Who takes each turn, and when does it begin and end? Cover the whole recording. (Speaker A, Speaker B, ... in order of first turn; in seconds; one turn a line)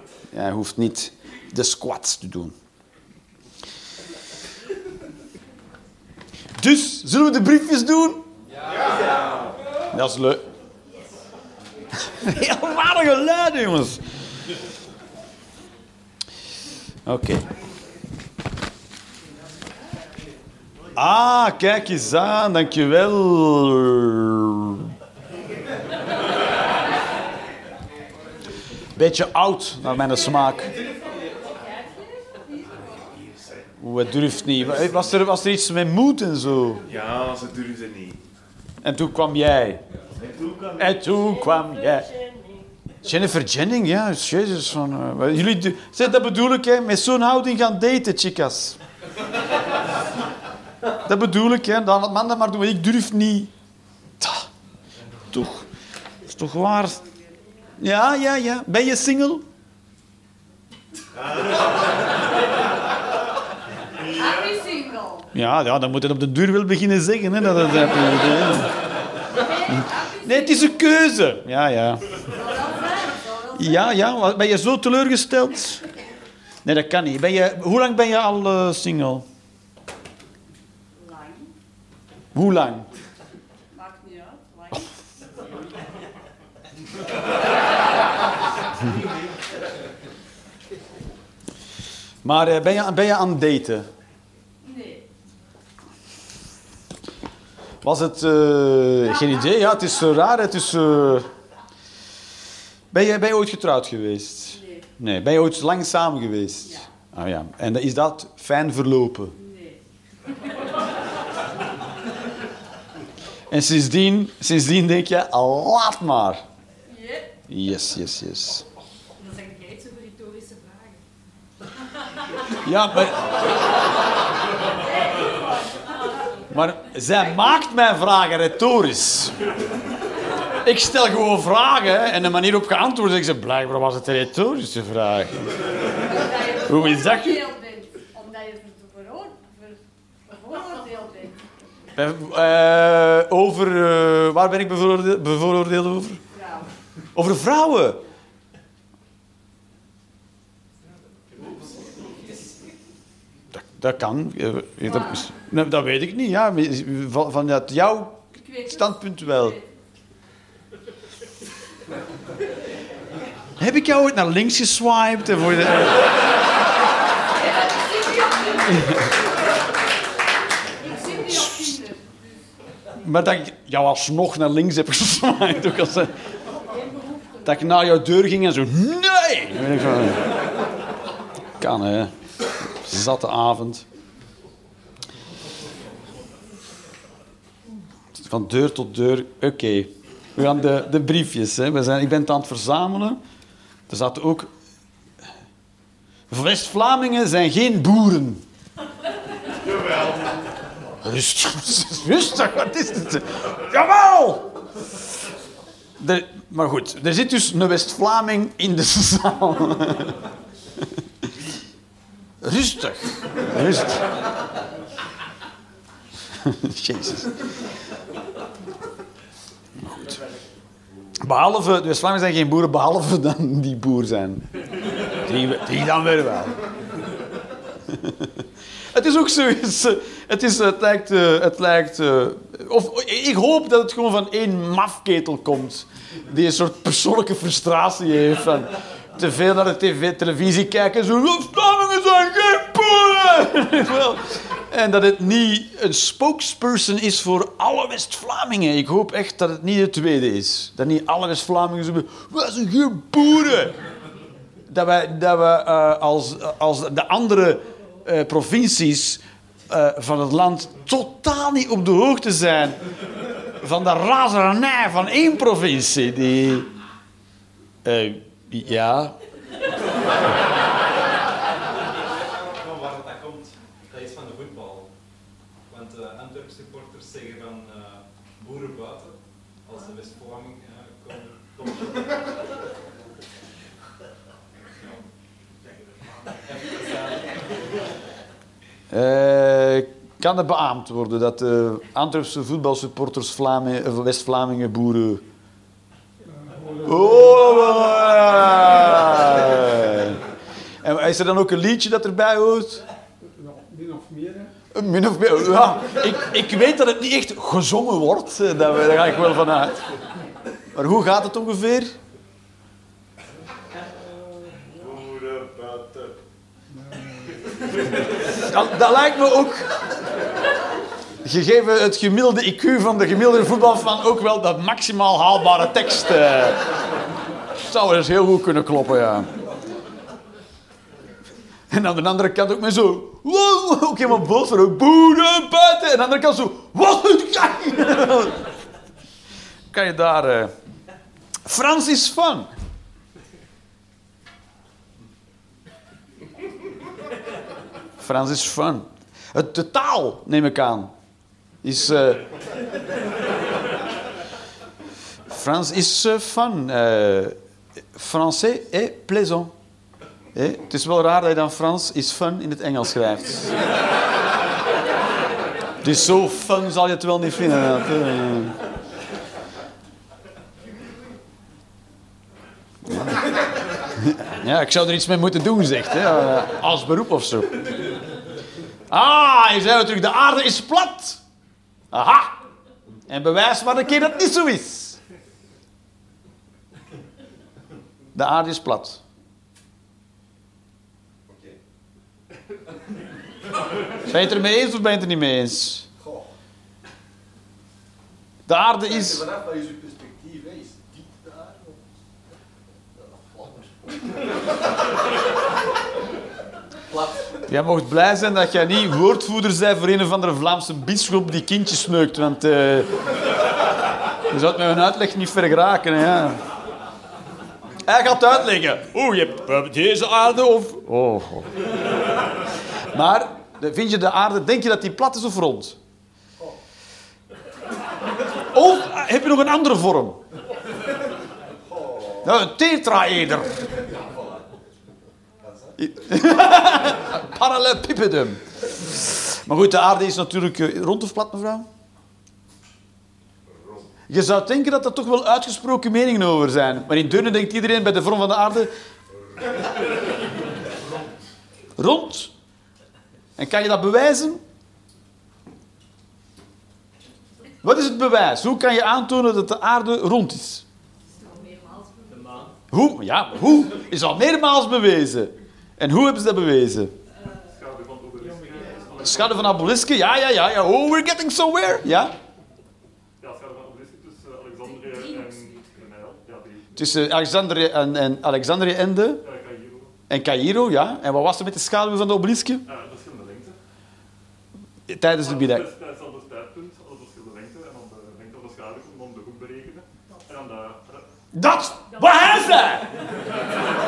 Speaker A: 0.3-2.5
Speaker A: 6.6-8.2
Speaker A: 9.9-10.4
Speaker A: 11.9-14.0
Speaker A: 17.1-17.4
Speaker A: 20.9-24.8
Speaker A: 28.9-30.7
Speaker B: 31.6-32.7
Speaker C: 32.7-33.7
Speaker A: 33.8-36.8
Speaker C: 36.9-38.2
Speaker A: 38.8-39.8
Speaker C: 40.3-40.7
Speaker A: 40.8-42.1
Speaker B: 42.1-42.6
Speaker A: 43.0-48.8
Speaker A: 51.0-53.5
Speaker A: 54.2-54.5
Speaker A: 55.3-55.7
Speaker A: 56.3-57.0
Speaker A: 57.8-59.4
Speaker B: 64.2-65.2
Speaker A: 65.3-68.7
Speaker B: 69.6-70.4
Speaker A: 69.7-72.2
Speaker B: 72.4-73.8
Speaker A: 73.5-75.8
Speaker A: 76.6-79.2
Speaker B: 81.0-81.5
Speaker A: 82.3-82.9
Speaker B: 83.7-84.8
Speaker A: 92.2-93.9
Speaker B: 94.6-95.0
Speaker A: 97.8-101.3
Speaker A: 102.9-109.4
Speaker B: 104.6-104.8
Speaker B: 109.5-109.7
Speaker A: 113.5-116.4
Speaker B: 116.9-117.3
Speaker A: 117.5-118.7
Speaker B: 119.2-121.0
Speaker A: 122.5-123.3
Speaker A: 126.5-129.3
Speaker A: 130.6-135.5
Speaker B: 136.2-141.4
Speaker A: 136.5-137.5
Speaker A: 141.9-146.2
Speaker A: 147.1-148.0
Speaker A: 153.5-159.6
Speaker A: 163.6-166.1
Speaker B: 168.2-168.4
Speaker A: 168.6-169.0
Speaker A: 171.1-171.9
Speaker A: 173.0-176.1
Speaker A: 177.4-180.3
Speaker A: 181.6-182.1
Speaker A: 182.7-183.8
Speaker A: 188.2-193.2
Speaker A: 193.9-194.5
Speaker A: 196.3-198.4
Speaker A: 201.0-204.5
Speaker A: 206.0-210.2
Speaker A: 212.4-214.1
Speaker A: 216.4-217.4
Speaker A: 219.8-220.2
Speaker A: 221.2-224.4
Speaker A: 225.2-226.6
Speaker A: 227.9-228.3
Speaker A: 228.9-253.8
Speaker A: 254.7-262.8
Speaker A: 263.6-266.7
Speaker A: 267.8-269.2
Speaker D: 272.2-274.9
Speaker D: 275.7-282.0
Speaker D: 286.6-286.9
Speaker A: 288.9-295.2
Speaker A: 296.8-300.2
Speaker A: 300.8-302.8
Speaker C: 303.5-304.4
Speaker A: 304.7-309.8
Speaker A: 310.7-311.9
Speaker C: 314.8-316.1
Speaker A: 318.3-319.8
Speaker A: 321.2-326.6
Speaker A: 327.6-329.3
Speaker A: 331.7-338.4
Speaker A: 339.7-340.5
Speaker A: 341.4-342.5
Speaker A: 348.0-350.9
Speaker A: 351.6-352.2
Speaker A: 355.3-357.4
Speaker A: 357.9-359.5
Speaker A: 360.3-363.5
Speaker A: 365.8-368.6
Speaker A: 372.9-373.3
Speaker A: 373.9-377.6
Speaker A: 378.9-381.2
Speaker A: 381.9-382.4
Speaker A: 383.1-385.0
Speaker A: 388.1-389.0
Speaker C: 391.3-391.5
Speaker A: 394.1-395.9
Speaker A: 398.5-399.2
Speaker C: 399.1-401.8
Speaker C: 403.1-403.6
Speaker A: 407.5-412.9
Speaker A: 414.3-416.4
Speaker A: 417.8-421.5
Speaker A: 422.9-425.8
Speaker A: 428.5-430.2
Speaker A: 432.2-433.7
Speaker A: 435.8-441.7
Speaker A: 444.1-448.7
Speaker A: 451.8-452.3
Speaker A: 453.4-454.4
Speaker A: 457.6-460.6
Speaker B: 461.1-462.4
Speaker A: 462.7-466.9
Speaker E: 467.5-469.7
Speaker A: 469.0-472.1
Speaker E: 473.2-476.7
Speaker B: 474.9-475.7
Speaker A: 476.8-479.2
Speaker E: 479.2-479.9
Speaker A: 480.1-482.6
Speaker E: 482.7-483.5
Speaker A: 484.9-485.7
Speaker E: 485.2-491.0
Speaker A: 491.3-492.9